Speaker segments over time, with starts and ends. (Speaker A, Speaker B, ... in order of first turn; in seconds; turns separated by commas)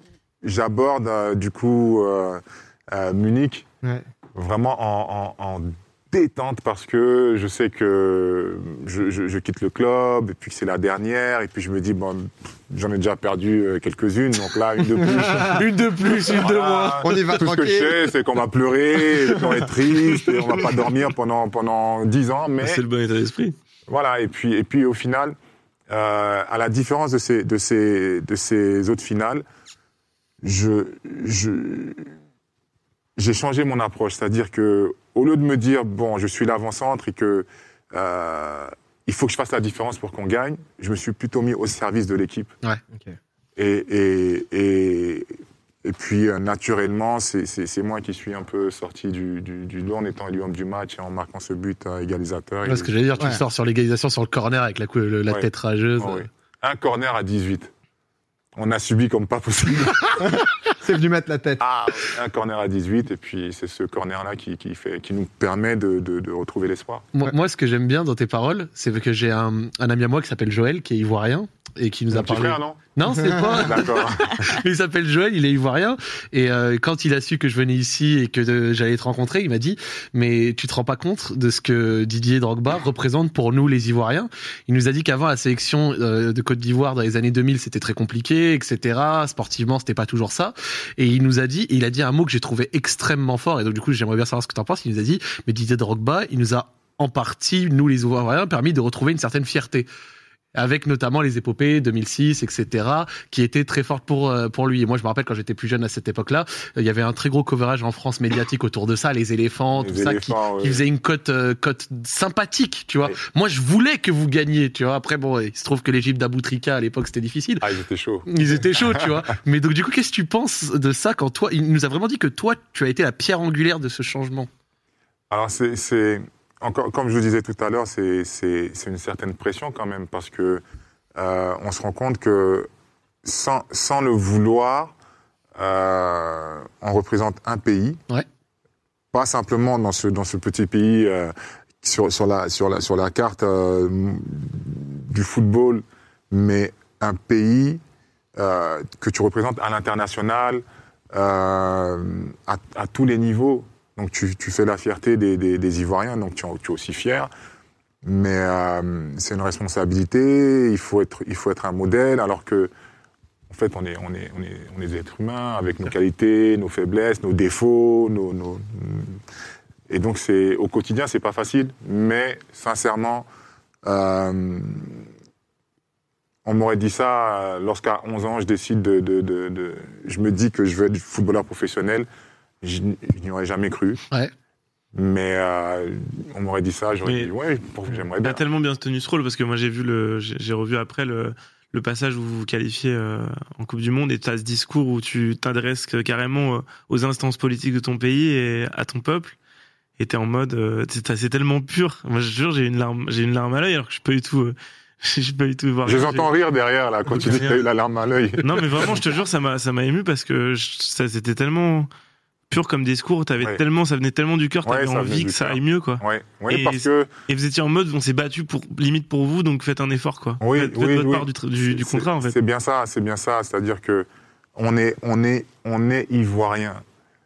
Speaker A: 0.4-3.7, Speaker A: 4.3-15.7, Speaker B: 15.2-17.4, Speaker C: 15.2-15.5, Speaker A: 16.3-22.8, Speaker C: 17.0-18.0, Speaker C: 19.3-19.7, Speaker D: 22.6-23.6, Speaker A: 23.9-25.4, Speaker A: 25.9-29.4, Speaker A: 30.4-32.1, Speaker A: 33.2-42.5, Speaker A: 43.6-45.3, Speaker A: 45.8-52.9, Speaker B: 52.7-56.3, Speaker A: 56.0-57.7, Speaker A: 58.5-60.4, Speaker C: 60.2-61.6, Speaker A: 61.6-67.1, Speaker B: 67.1-99.9, Speaker A: 72.1-72.9, Speaker A: 73.5-74.4, Speaker B: 100.5-117.7, Speaker A: 109.8-110.8, Speaker A: 117.6-118.3, Speaker B: 118.3-124.5, Speaker A: 125.3-130.6, Speaker A: 131.2-132.7, Speaker A: 133.2-134.9, Speaker A: 135.6-138.0, Speaker A: 139.1-147.8, Speaker A: 148.4-157.3, Speaker A: 158.0-162.7, Speaker A: 163.5-169.2, Speaker A: 169.9-173.3, Speaker A: 173.8-175.1, Speaker A: 176.4-182.1, Speaker A: 182.6-184.0, Speaker A: 184.9-188.4, Speaker D: 188.2-199.4, Speaker D: 200.0-206.3, Speaker A: 205.8-209.0, Speaker D: 207.1-207.6, Speaker D: 208.4-211.9, Speaker D: 212.5-222.4, Speaker A: 214.7-217.1, Speaker A: 220.4-226.8